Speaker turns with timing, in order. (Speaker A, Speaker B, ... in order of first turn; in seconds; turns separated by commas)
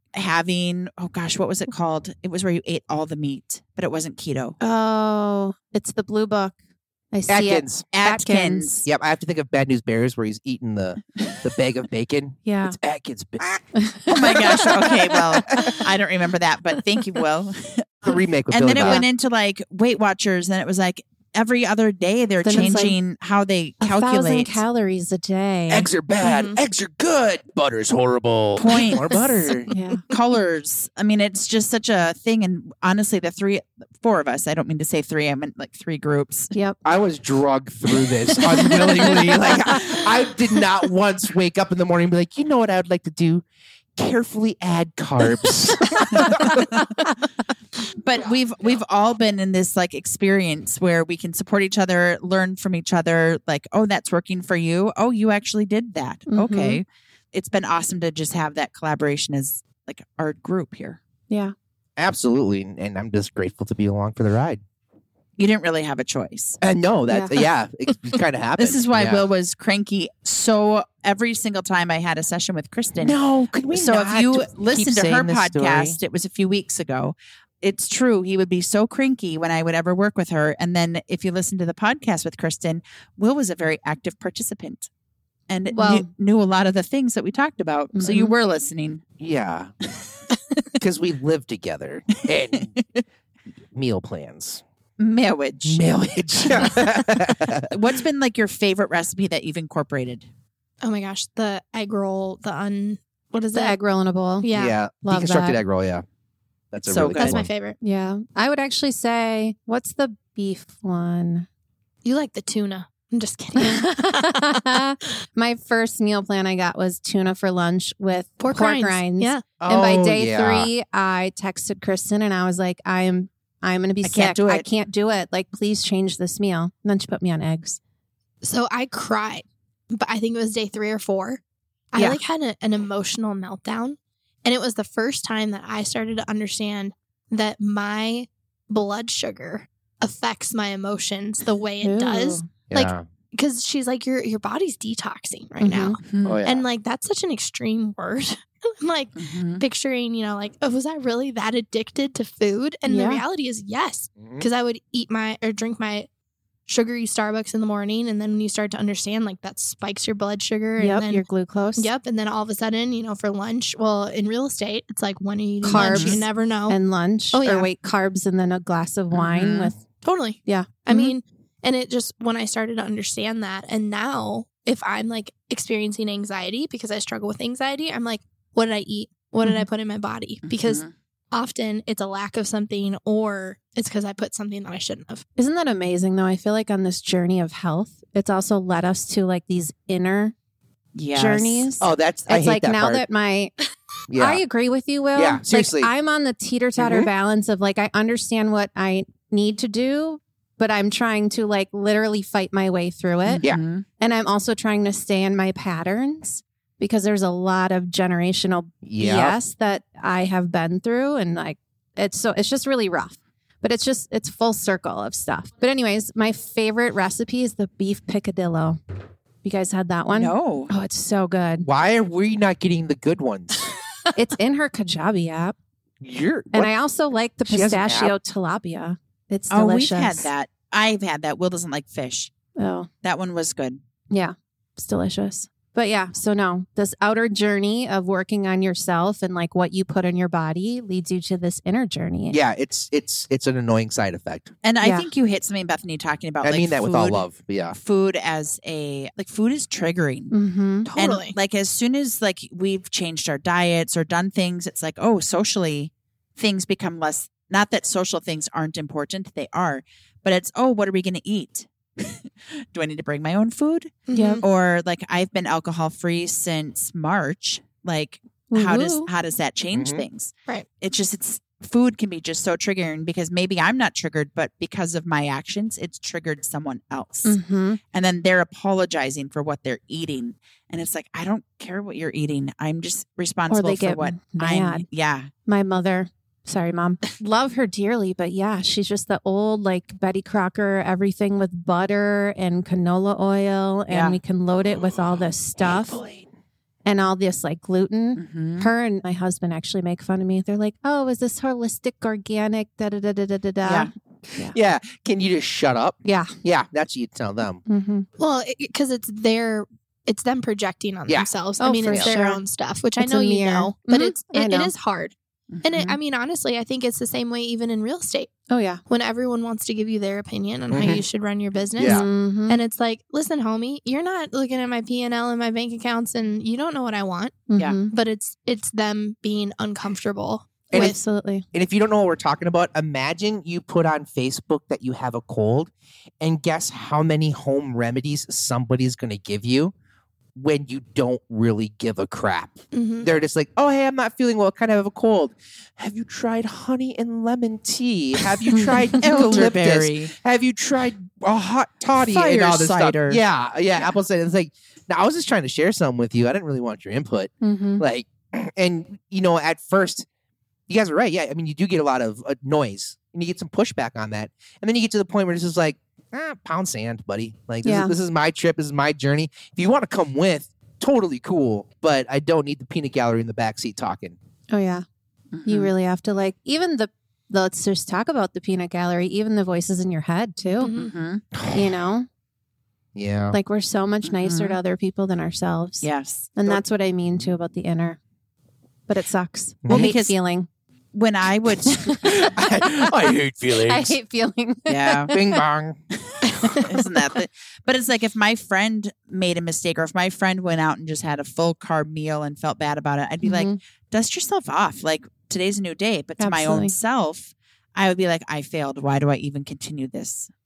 Speaker A: 0.1-4.5, Speaker B: 4.6-6.5, Speaker B: 7.1-8.8, Speaker C: 7.3-7.8, Speaker A: 7.9-8.9, Speaker C: 8.8-14.7, Speaker B: 12.4-12.8, Speaker B: 13.7-14.5, Speaker A: 14.1-24.6, Speaker C: 18.0-19.0, Speaker B: 18.8-19.0, Speaker B: 22.4-23.0, Speaker D: 22.5-22.9, Speaker B: 23.8-25.9, Speaker C: 25.7-29.7, Speaker D: 26.2-26.6, Speaker A: 28.6-29.4, Speaker B: 29.7-30.0, Speaker A: 30.1-36.5, Speaker B: 36.5-36.8, Speaker C: 36.8-43.4, Speaker C: 44.0-46.6, Speaker A: 48.0-61.0, Speaker B: 56.3-56.8, Speaker C: 62.0-64.6, Speaker A: 65.4-66.6, Speaker C: 66.6-69.2, Speaker B: 67.1-67.4, Speaker A: 68.6-73.2, Speaker C: 73.0-76.0, Speaker A: 73.7-84.9, Speaker A: 85.5-89.0, Speaker B: 85.7-86.1, Speaker B: 88.0-88.3, Speaker C: 89.2-89.7, Speaker C: 90.8-92.7, Speaker A: 92.8-93.0, Speaker C: 93.7-94.6, Speaker A: 95.0-96.9, Speaker C: 95.6-97.7, Speaker A: 97.7-100.2, Speaker D: 100.8-103.8, Speaker B: 103.5-105.6, Speaker D: 104.4-104.7, Speaker C: 104.5-106.0, Speaker C: 106.7-107.5, Speaker A: 106.8-107.4, Speaker D: 107.1-107.8, Speaker B: 107.8-111.5, Speaker D: 112.0-114.8, Speaker B: 113.6-127.8, Speaker D: 118.4-119.4, Speaker C: 119.6-120.7, Speaker A: 124.0-124.6, Speaker D: 128.4-131.4, Speaker D: 131.9-156.1, Speaker B: 141.8-142.5, Speaker C: 142.7-143.0, Speaker B: 145.6-146.0, Speaker A: 146.0-146.4, Speaker C: 146.2-146.6, Speaker A: 149.2-149.6, Speaker B: 152.8-153.2, Speaker C: 154.2-154.4, Speaker D: 156.7-161.2, Speaker B: 160.8-161.9, Speaker D: 161.8-166.8, Speaker B: 165.6-169.8, Speaker A: 165.7-166.2, Speaker D: 167.3-167.7, Speaker A: 169.1-169.7, Speaker D: 170.0-185.2, Speaker B: 170.4-171.1, Speaker A: 180.4-180.9, Speaker B: 185.4-190.3, Speaker A: 190.9-191.7, Speaker B: 191.1-193.5, Speaker C: 191.8-193.0, Speaker C: 194.1-194.4, Speaker B: 194.1-203.4, Speaker C: 195.1-195.9, Speaker C: 196.8-197.1, Speaker A: 203.2-203.8, Speaker B: 204.0-218.8, Speaker C: 208.8-209.4, Speaker B: 219.4-221.7, Speaker A: 220.1-220.7, Speaker C: 221.6-223.7, Speaker B: 224.1-225.5, Speaker C: 226.0-226.7, Speaker B: 226.5-230.3, Speaker C: 227.5-228.1, Speaker A: 229.5-232.3, Speaker B: 232.6-232.9, Speaker A: 233.0-233.8, Speaker B: 234.1-242.4, Speaker C: 242.3-244.5, Speaker A: 244.6-250.3, Speaker B: 244.8-245.1, Speaker C: 246.4-247.8, Speaker B: 250.3-250.9, Speaker D: 250.9-251.3, Speaker A: 250.9-277.4, Speaker D: 264.1-264.4, Speaker B: 264.1-264.4, Speaker B: 268.5-269.1, Speaker C: 269.7-270.0, Speaker B: 277.2-277.8, Speaker A: 277.9-285.3, Speaker B: 283.5-284.9, Speaker B: 285.5-296.0, Speaker A: 293.9-294.2, Speaker C: 295.6-296.3, Speaker B: 296.8-304.6, Speaker A: 298.1-298.7, Speaker A: 303.6-303.9, Speaker C: 304.3-307.6, Speaker B: 306.0-306.3, Speaker B: 307.6-308.1, Speaker D: 308.2-318.3, Speaker B: 311.6-312.4, Speaker C: 311.9-312.1, Speaker B: 312.9-314.7, Speaker A: 315.5-315.9, Speaker B: 318.5-318.8, Speaker D: 318.9-331.0, Speaker C: 320.7-321.0, Speaker C: 321.8-322.1, Speaker B: 321.8-322.6, Speaker B: 327.5-327.9, Speaker B: 330.7-331.4, Speaker C: 331.5-339.7, Speaker C: 340.3-360.1, Speaker D: 342.7-343.1, Speaker A: 349.0-350.1, Speaker A: 351.9-353.2, Speaker B: 357.4-357.8, Speaker C: 360.7-374.2, Speaker B: 367.6-367.9, Speaker B: 374.5-374.8, Speaker A: 375.3-375.7, Speaker B: 375.4-380.7, Speaker D: 380.6-380.9, Speaker A: 380.7-381.2, Speaker C: 381.3-381.7, Speaker B: 381.5-382.1, Speaker C: 382.9-383.4, Speaker B: 383.3-388.0, Speaker A: 384.0-384.6, Speaker A: 385.8-386.3, Speaker B: 388.9-390.5, Speaker C: 389.6-389.9, Speaker A: 389.7-390.1, Speaker A: 390.9-392.0, Speaker B: 391.7-392.0, Speaker C: 392.0-393.9, Speaker B: 393.5-395.4, Speaker A: 394.7-395.1, Speaker C: 395.1-395.8, Speaker A: 396.4-410.3, Speaker B: 403.2-403.6, Speaker B: 406.2-406.7